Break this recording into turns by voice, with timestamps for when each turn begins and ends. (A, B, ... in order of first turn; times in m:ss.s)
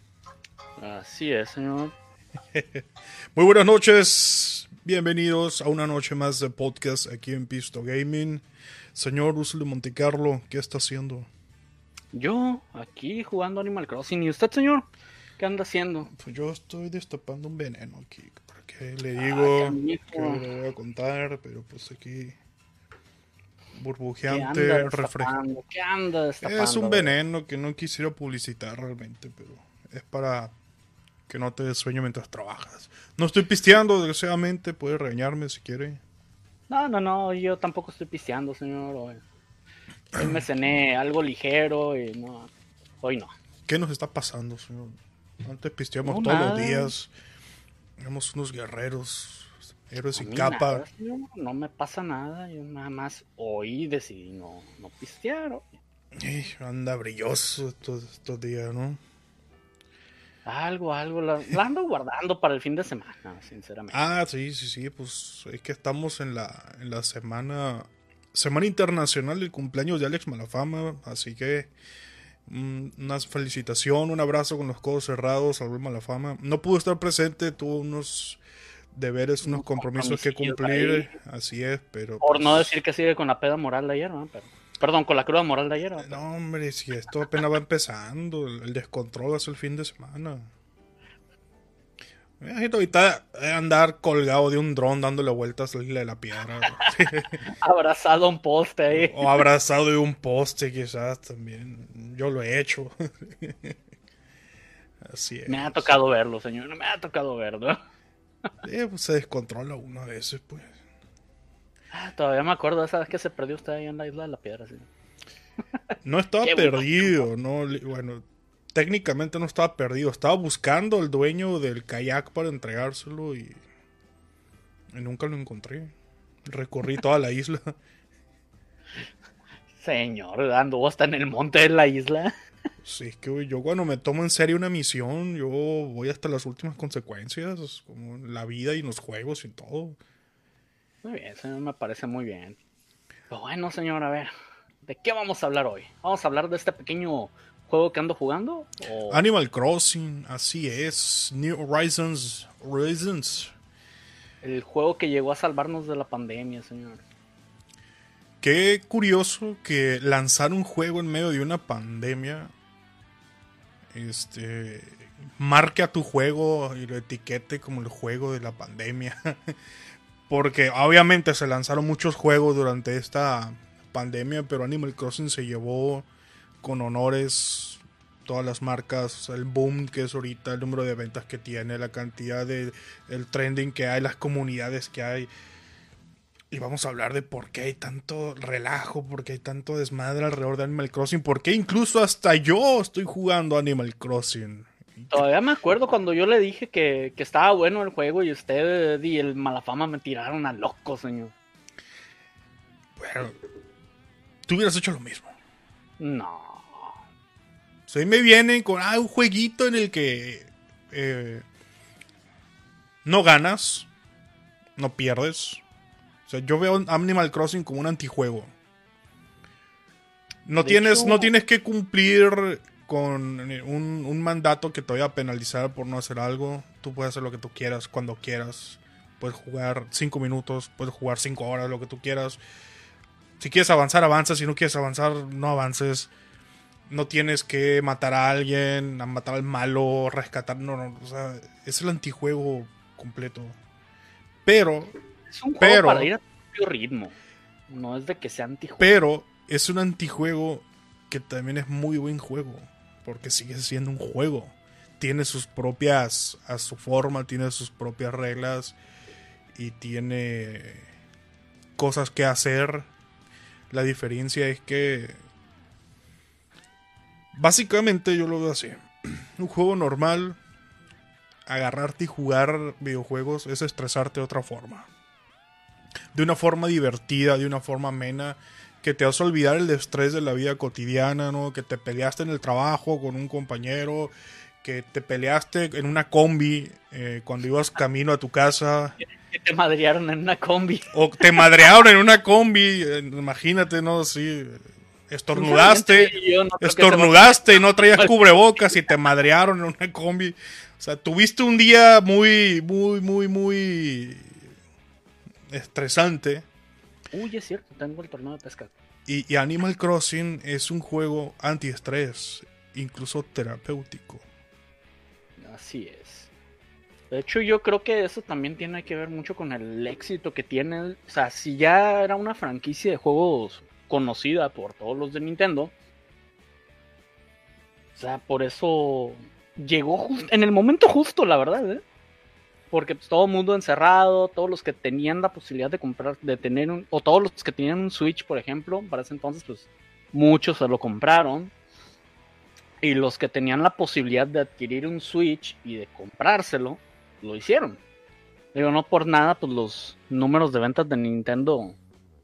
0:00.8-0:01.9 A
0:02.5-0:11.3 B
0:12.1-0:14.9 A
0:15.4-0:16.1 A
0:16.1-0:22.4 B
0:19.2-0:20.4 A
0:23.7-0:25.3 B
0:24.3-0:27.1 A
0:26.4-0:30.5 B
0:31.3-0:36.0 B
0:36.7-0:39.2 A
0:40.1-0:42.5 A
0:43.0-0:43.3 A
0:43.7-0:47.1 B
0:46.0-0:46.9 A
0:48.0-0:50.9 B
0:50.1-0:55.7 A
0:56.2-0:59.0 B
1:00.4-1:04.1 A
1:03.9-1:11.7 B
1:12.4-1:18.4 B
1:18.9-1:22.7 B
1:19.4-1:21.1 A
1:22.2-1:26.2 A
1:26.0-1:30.5 B
1:32.4-1:37.4 B
1:37.6-1:39.4 A
1:38.9-1:43.8 B
1:45.0-1:46.0 B
1:45.5-1:47.8 A
1:48.6-1:50.7 B
1:51.9-1:54.9 A
1:56.0-2:03.6 B
1:56.4-1:57.3 A
2:04.9-2:05.9 B
2:06.4-2:07.8 B
2:09.8-2:12.3 A
2:12.8-2:20.0 B
2:21.0-2:22.6 A
2:23.3-2:24.3 A
2:24.8-2:29.2 A
2:29.1-2:33.5 B
2:34.4-2:37.0 A
2:38.4-2:42.5 B
2:43.9-2:49.6 B
2:50.3-2:56.1 B
2:56.6-3:05.3 B
3:06.5-3:15.2 B
3:15.1-3:21.3 A
3:23.0-3:23.4 B
3:24.5-3:25.3 B
3:26.0-3:27.0 A
3:27.9-3:31.4 B
3:33.0-3:33.9 B
3:34.8-3:35.6 B
3:36.3-3:38.5 B
3:40.5-3:52.4 B
3:40.6-3:41.3 A
3:53.4-3:56.1 B
3:56.9-4:03.6 B
4:04.4-4:04.9 B
4:05.3-4:07.1 A
4:05.6-4:06.1 B
4:07.7-4:08.9 A
4:08.8-4:18.8 B
4:19.5-4:20.9 B
4:21.8-4:22.9 B
4:23.7-4:25.2 B
4:27.3-4:30.4 B
4:31.4-4:34.9 B
4:36.1-4:49.0 B
4:49.3-4:50.9 A
4:50.9-5:04.4 B
4:55.3-4:58.1 A
5:05.5-5:06.5 B
5:07.1-5:08.7 A
5:09.1-5:14.2 B
5:15.4-5:16.3 A
5:17.1-5:25.7 A
5:28.0-5:31.8 A
5:32.7-5:41.5 A
5:42.8-5:47.8 A
5:48.5-5:51.8 A